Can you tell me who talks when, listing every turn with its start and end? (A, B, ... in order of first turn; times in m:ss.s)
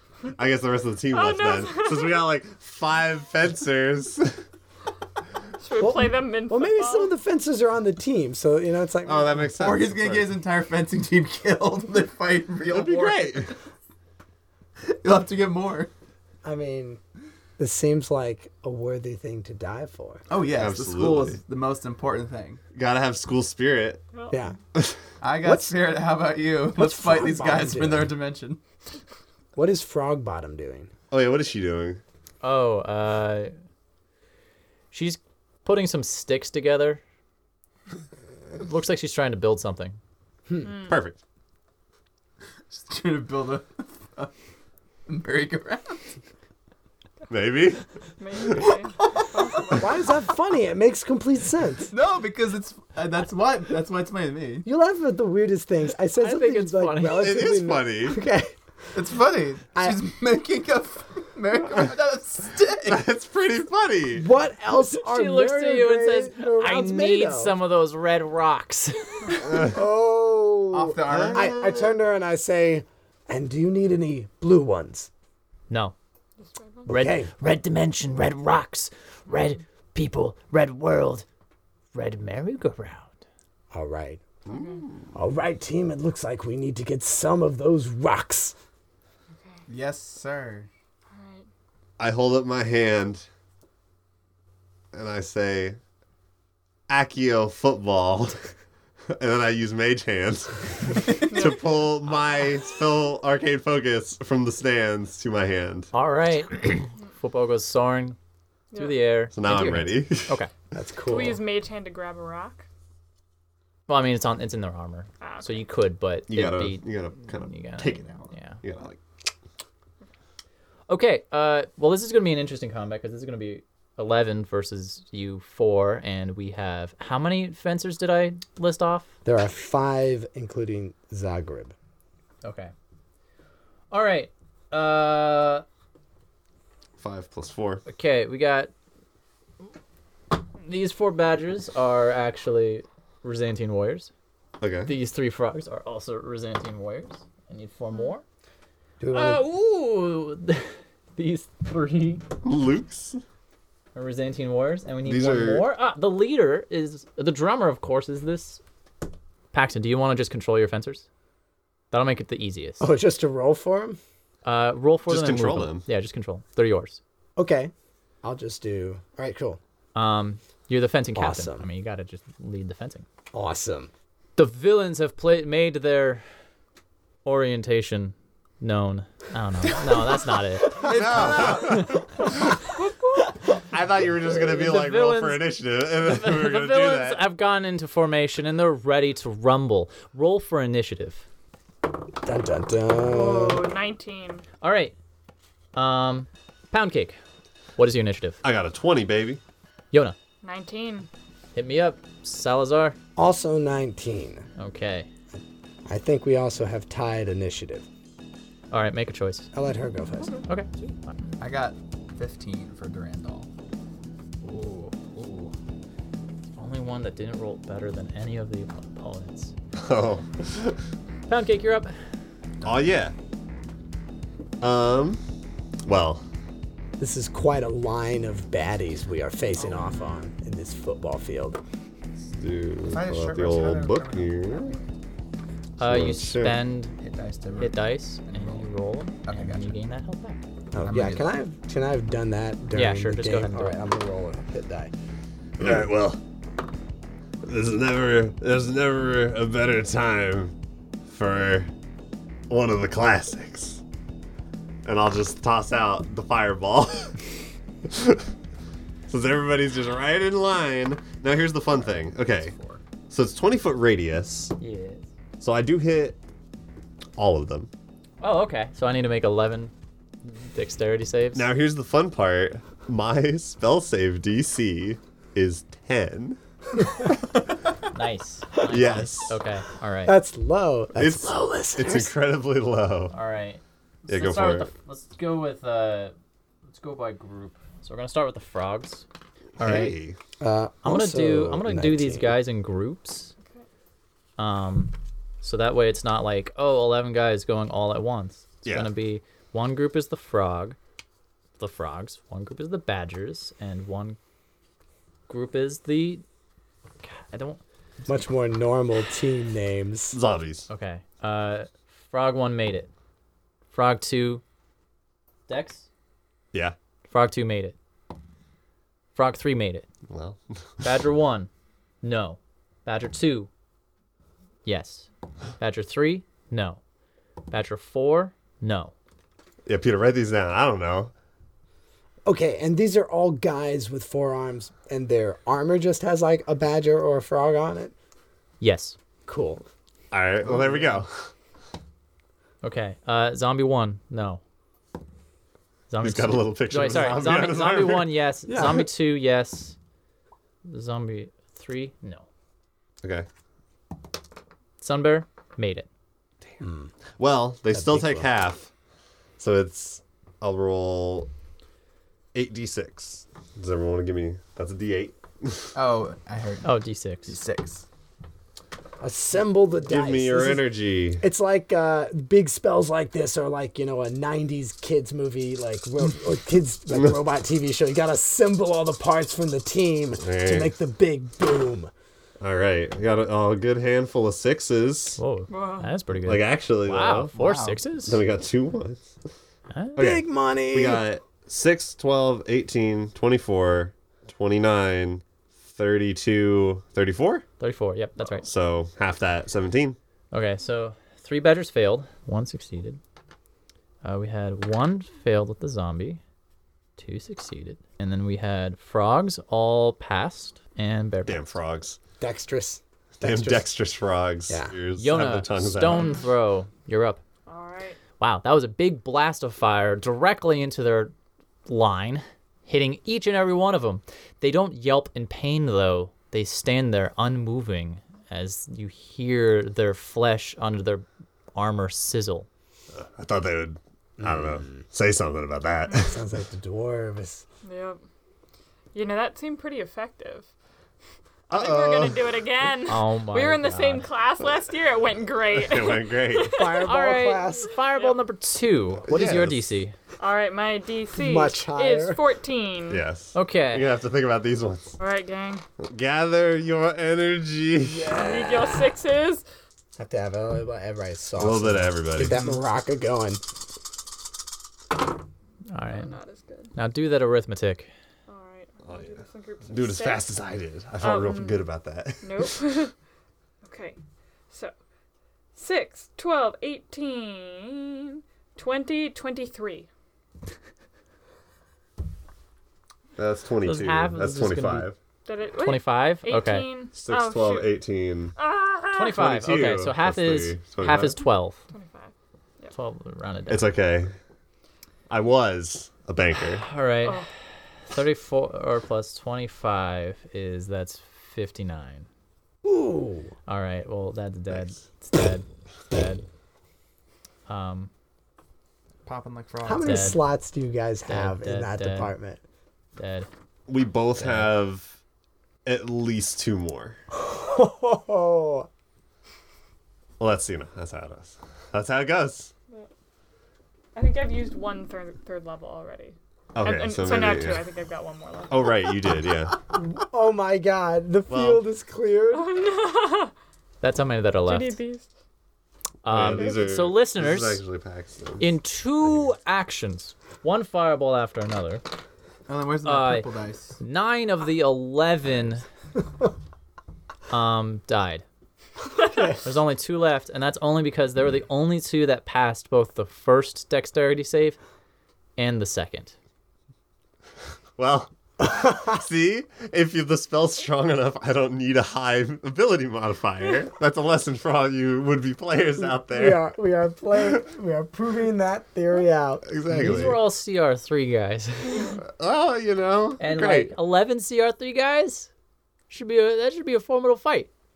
0:00.3-0:04.4 A
0:01.1-0:02.3 B
0:05.6-0:07.1 B
0:05.8-0:09.5 C
0:09.0-0:10.4 A
0:09.4-0:13.5 D
0:12.7-0:13.5 A
0:14.8-0:15.9 D
0:16.4-0:17.0 C
0:17.6-0:20.2 C
0:20.3-0:22.6 D
0:20.5-0:21.4 A
0:22.8-0:24.0 A
0:25.2-0:28.6 D
0:25.4-0:25.8 C
0:26.8-0:28.1 C
0:29.6-0:30.9 C
0:31.1-0:32.0 A
0:32.4-0:33.5 E
0:34.9-0:37.0 E
0:38.6-0:40.0 E
0:40.6-0:41.0 B
0:40.7-0:41.2 A
0:42.7-0:44.3 D
0:45.1-0:46.1 D
0:47.3-0:48.7 A
0:48.2-0:50.1 B
0:49.0-0:49.8 D
0:49.8-0:51.9 C
0:51.9-0:54.7 D
0:54.6-0:58.5 C
0:56.2-0:57.4 E
0:57.1-0:58.2 A
0:58.9-1:03.0 D
1:02.9-1:04.3 A
1:04.1-1:07.6 C
1:04.7-1:09.5 E
1:09.4-1:15.1 C
1:09.5-1:09.7 A
1:10.7-1:11.6 D
1:11.1-1:11.9 A
1:15.7-1:16.0 E
1:16.4-1:16.9 B
1:16.9-1:17.3 C
1:16.9-1:21.3 E
1:21.9-1:23.1 E
1:23.7-1:24.3 C
1:24.5-1:25.2 A
1:24.5-1:24.8 B
1:25.1-1:28.6 C
1:29.7-1:30.7 D
1:31.1-1:31.5 B
1:32.0-1:33.3 A
1:34.9-1:35.8 A
1:36.9-1:38.4 A
1:39.1-1:45.9 A
1:41.3-1:41.8 B
1:45.9-1:48.2 E
1:48.7-1:49.0 B
1:48.8-1:50.5 E
1:49.3-1:50.4 A
1:50.7-1:51.4 C
1:51.1-1:52.7 B
1:53.9-1:58.6 E
1:55.2-1:55.6 B
1:56.3-1:59.0 A
2:00.9-2:09.1 E
2:09.2-2:11.7 C
2:12.4-2:12.7 E
2:13.9-2:15.6 E
2:17.0-2:17.8 A
2:17.9-2:18.7 E
2:20.6-2:24.1 E
2:24.6-2:24.9 A
2:24.9-2:28.2 E
2:29.0-2:29.4 C
2:29.1-2:32.2 E
2:32.4-2:33.2 A
2:34.0-2:38.6 E
2:35.0-2:35.7 A
2:39.5-2:41.1 E
2:41.9-2:42.9 E
2:42.8-2:44.0 C
2:44.4-2:47.0 E
2:45.1-2:45.9 A
2:47.4-2:47.7 C
2:48.2-2:49.6 C
2:50.0-2:53.1 E
2:51.2-2:51.7 C
2:53.3-2:53.9 C
2:54.4-2:56.2 E
2:57.2-3:02.0 E
3:00.7-3:02.0 D
3:00.8-3:02.4 A
3:02.8-3:03.2 B
3:03.5-3:07.3 A
3:04.5-3:11.2 E
3:12.2-3:13.7 C
3:13.1-3:14.4 B
3:14.6-3:15.0 E
3:15.8-3:17.2 E
3:17.8-3:18.4 E
3:18.4-3:19.4 A
3:20.4-3:21.1 B
3:21.6-3:23.0 E
3:23.2-3:24.5 C
3:24.6-3:25.1 E
3:25.9-3:27.9 C
3:28.7-3:29.5 E
3:29.5-3:30.4 C
3:30.5-3:31.0 E
3:31.4-3:33.5 D
3:34.4-3:35.5 E
3:36.5-3:39.5 E
3:39.8-3:40.8 A
3:41.3-3:42.0 E
3:42.6-3:43.1 A
3:44.6-3:45.2 A
3:45.8-3:46.2 A
3:47.0-3:51.6 C
3:52.3-3:54.8 A
3:52.9-3:54.9 D
3:55.8-3:56.6 A
3:55.8-3:57.0 E
3:57.0-3:58.7 D
3:57.6-4:00.4 E
3:59.2-3:59.7 D
4:00.7-4:04.9 C
4:00.8-4:01.3 D
4:02.7-4:03.8 E
4:05.6-4:06.2 A
4:07.4-4:10.6 A
4:11.1-4:11.7 A
4:12.5-4:13.8 A
4:14.8-4:17.2 A
4:17.9-4:18.2 A
4:19.1-4:22.6 A
4:21.9-4:22.8 D
4:23.1-4:24.5 A
4:24.6-4:25.0 E
4:25.4-4:26.2 A
4:27.2-4:27.7 A
4:28.2-4:29.7 E
4:30.2-4:31.5 E
4:31.4-4:36.4 A
4:37.9-4:40.2 E
4:38.7-4:39.4 A
4:40.0-4:42.1 C
4:40.9-4:43.2 A
4:43.1-4:46.2 E
4:44.1-4:44.7 A
4:46.7-4:49.0 E
4:49.6-4:50.0 E
4:49.6-4:50.2 A
4:50.4-4:52.3 C
4:50.8-4:53.3 E
4:54.4-5:00.8 E
4:58.6-4:58.9 A
5:01.6-5:04.2 E
5:05.3-5:06.2 E
5:07.0-5:07.6 E
5:08.1-5:10.2 C
5:10.1-5:10.7 A
5:10.7-5:12.9 E
5:13.7-5:14.4 E
5:15.5-5:15.9 E
5:17.1-5:17.8 E
5:19.2-5:19.9 E
5:20.1-5:20.4 A
5:20.8-5:21.5 E
5:22.0-5:23.5 E
5:24.6-5:25.1 E
5:25.6-5:26.8 E
5:27.5-5:28.9 E
5:29.7-5:31.1 A
5:32.2-5:37.9 C
5:38.6-5:39.0 E
5:39.3-5:39.6 C
5:40.1-5:41.3 A
5:42.6-5:44.4 E
5:45.9-5:49.8 E
5:46.0-5:48.1 A
5:48.5-5:48.9 C
5:50.6-5:52.3 E
5:53.0-5:53.3 A
5:54.8-5:55.9 E
5:56.6-5:56.9 C
5:57.2-5:58.7 A
5:57.7-5:58.3 C
5:59.4-6:01.3 A
6:02.3-6:05.7 A
6:05.7-6:06.7 D
6:06.6-6:07.4 E
6:07.3-6:07.8 D
6:09.0-6:21.9 C
6:09.8-6:11.2 A
6:20.2-6:20.7 A
6:22.4-6:25.2 A
6:25.2-6:28.2 E
6:25.5-6:25.9 B
6:26.2-6:27.3 A
6:27.3-6:27.8 D
6:28.0-6:29.1 A
6:29.7-6:30.0 E
6:30.0-6:37.4 A
6:30.0-6:31.0 C
6:37.6-6:38.5 E
6:38.4-6:40.0 A
6:40.3-6:43.0 E
6:44.0-6:46.2 E
6:47.0-6:51.5 E
6:51.3-6:52.0 A
6:52.2-6:53.7 C
6:53.2-6:56.2 A
6:54.5-6:54.7 C
6:55.0-6:57.2 E
6:57.5-6:58.0 B
6:58.2-7:01.1 E
7:01.7-7:11.0 E
7:11.6-7:12.5 E
7:12.9-7:16.2 A
7:14.2-7:14.6 C
7:15.9-7:16.2 B
7:16.0-7:17.4 C
7:17.6-7:18.0 B
7:18.9-7:20.5 B
7:21.5-7:22.4 A
7:21.5-7:26.9 B
7:22.9-7:24.1 E
7:25.5-7:26.6 A
7:26.5-7:27.7 C
7:26.8-7:29.9 E
7:29.1-7:29.6 A
7:30.2-7:33.0 B
7:31.1-7:32.2 C
7:32.9-7:35.0 A
7:33.3-7:33.9 E
7:35.0-7:35.6 B
7:35.8-7:38.1 A
7:37.8-7:39.0 C
7:38.1-7:39.4 B
7:40.0-7:43.4 C
7:41.4-7:42.4 A
7:45.7-7:46.1 E
7:45.9-7:46.7 B
7:46.8-7:47.9 E
7:48.3-7:50.3 B
7:48.9-7:52.6 A
7:51.0-7:51.7 B
7:52.2-7:52.9 B
7:53.6-7:54.0 B
7:55.6-7:59.9 B
8:03.2-8:05.0 A
8:03.6-8:04.9 E
8:05.3-8:07.8 B
8:05.6-8:06.7 E
8:06.9-8:08.4 A
8:08.4-8:09.1 B
8:08.9-8:11.6 E
8:09.0-8:11.2 A
8:11.7-8:12.7 B
8:12.7-8:13.7 E
8:13.5-8:14.1 A
8:15.1-8:16.7 A
8:16.4-8:17.3 E
8:17.0-8:17.3 B
8:17.9-8:22.1 E
8:22.6-8:23.3 C
8:23.5-8:26.2 E
8:27.5-8:27.9 E
8:29.0-8:30.1 D
8:29.6-8:32.4 C
8:29.8-8:30.2 E
8:31.1-8:32.1 E
8:33.0-8:33.3 E
8:33.7-8:35.0 A
8:35.6-8:37.0 A
8:37.1-8:38.7 C
8:40.2-8:42.5 A
8:44.0-8:49.0 B
8:46.6-8:47.7 A
8:48.5-8:49.6 A
8:49.7-8:52.5 C
8:51.3-8:51.6 A
8:52.3-8:53.3 B
8:53.8-8:54.8 E
8:54.5-8:55.1 B
8:56.0-8:57.6 E
8:56.1-8:58.5 A
8:56.4-8:56.6 B
8:58.4-9:01.8 E
9:02.5-9:03.8 D
9:02.8-9:05.6 E
9:07.3-9:08.2 E
9:09.1-9:09.4 C
9:09.4-9:14.6 E
9:15.4-9:16.2 E
9:17.8-9:26.4 A
9:18.4-9:19.0 C
9:26.0-9:29.4 C
9:29.4-9:30.2 A
9:29.7-9:32.0 E
9:32.0-9:33.7 A
9:33.2-9:35.3 E
9:35.9-9:37.5 E